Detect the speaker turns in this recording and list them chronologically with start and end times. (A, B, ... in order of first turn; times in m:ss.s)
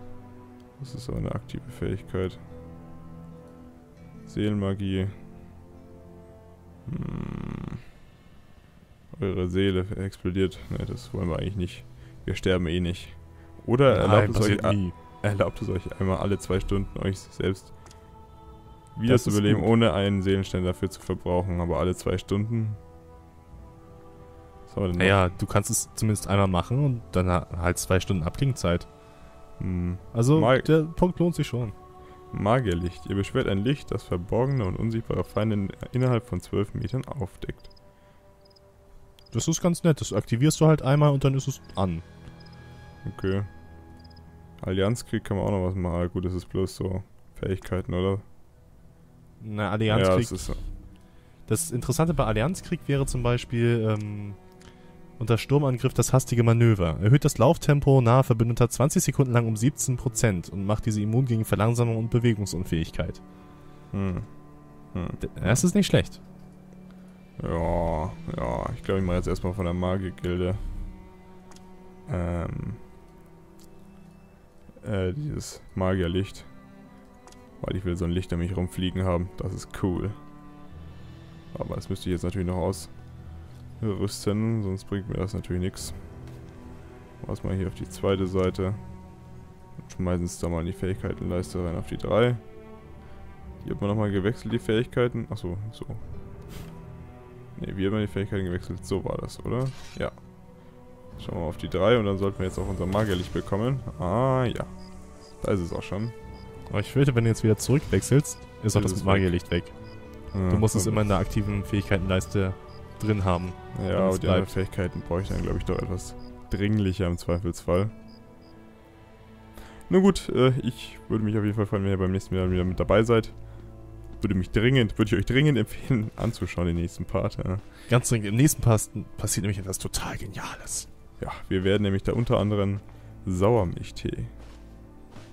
0:00.8-0:02.4 A
0:04.2-0:05.2 A
0:06.8-0:07.8 A
0:09.1-0:17.8 A
0:13.9-0:14.9 B
0:18.9-0:22.8 A
0:19.0-0:19.7 B
0:24.7-0:25.3 A
0:25.0-0:28.9 B
0:29.6-0:30.7 A
0:30.1-0:31.7 B
0:32.3-0:37.7 A
0:39.3-0:42.0 B
0:43.0-0:43.5 A
0:44.6-0:48.2 A
0:49.4-0:50.7 B
0:49.9-0:50.6 A
0:51.4-0:54.4 B
0:55.2-1:03.2 B
1:03.9-1:05.6 A
1:05.2-1:06.2 B
1:07.4-1:10.6 A
1:12.0-1:12.8 A
1:14.8-1:16.6 A
1:17.6-1:20.2 A
1:21.5-1:26.0 A
1:27.2-1:29.3 A
1:29.8-1:32.4 A
1:33.6-1:36.0 A
1:37.6-1:46.1 A
1:46.7-1:54.5 B
1:48.7-1:49.4 A
1:50.3-1:51.0 A
1:53.7-1:57.9 A
1:59.9-2:07.6 A
2:07.9-2:10.9 B
2:11.2-2:14.3 A